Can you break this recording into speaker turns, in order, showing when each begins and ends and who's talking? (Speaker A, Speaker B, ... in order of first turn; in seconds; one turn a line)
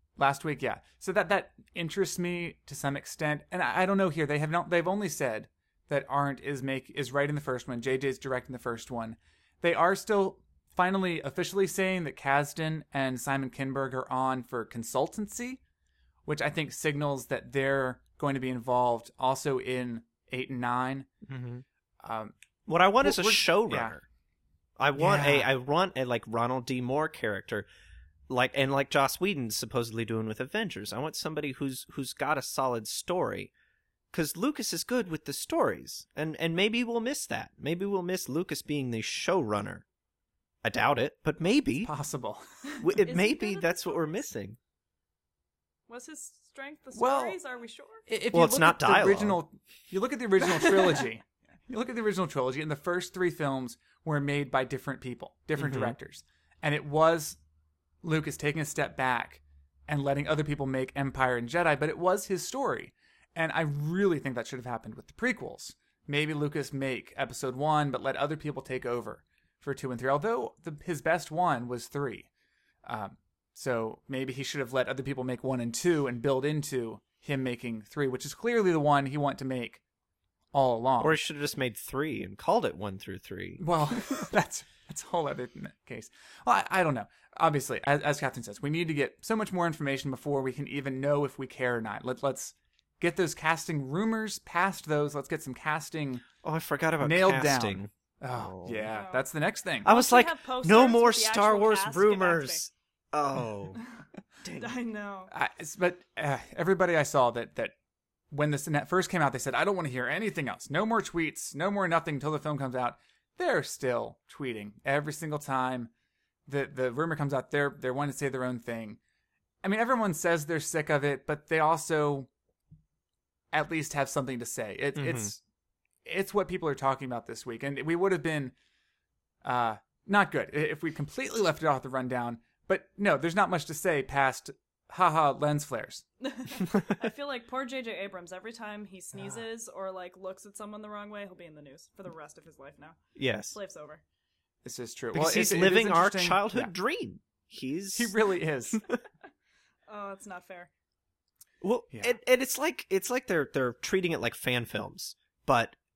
Speaker A: 0.2-15.6
Speaker A: 16.2-21.1
Speaker B: 21.3-21.6
Speaker A: 22.0-22.3
Speaker B: 22.7-24.0
Speaker A: 23.0-23.9
Speaker B: 24.8-27.7
Speaker A: 24.9-25.5
Speaker B: 28.3-33.5
Speaker B: 34.1-39.8
Speaker B: 40.6-41.9
Speaker A: 41.8-42.4
Speaker C: 42.7-44.2
Speaker B: 42.8-44.6
Speaker C: 45.9-48.0
Speaker A: 46.9-47.4
Speaker A: 48.1-57.4
Speaker B: 48.3-49.4
Speaker B: 55.6-56.0
Speaker A: 58.0-72.3
Speaker A: 72.8-79.8
Speaker A: 80.5-81.2
Speaker B: 81.0-83.7
Speaker A: 83.6-96.2
Speaker B: 96.4-98.9
Speaker A: 97.0-99.9
Speaker C: 98.9-99.2
Speaker B: 99.8-103.8
Speaker C: 99.8-102.6
Speaker B: 104.4-104.8
Speaker C: 104.6-105.3
Speaker A: 105.3-107.7
Speaker A: 108.3-115.9
Speaker A: 116.5-119.0
Speaker A: 119.6-122.3
Speaker A: 123.5-125.4
Speaker B: 124.9-125.3
Speaker A: 126.0-128.5
Speaker A: 129.4-136.1
Speaker C: 136.2-144.0
Speaker B: 143.2-143.6
Speaker A: 144.6-146.7
Speaker B: 145.1-148.1
Speaker A: 147.9-148.8
Speaker C: 149.9-150.7
Speaker B: 151.6-155.8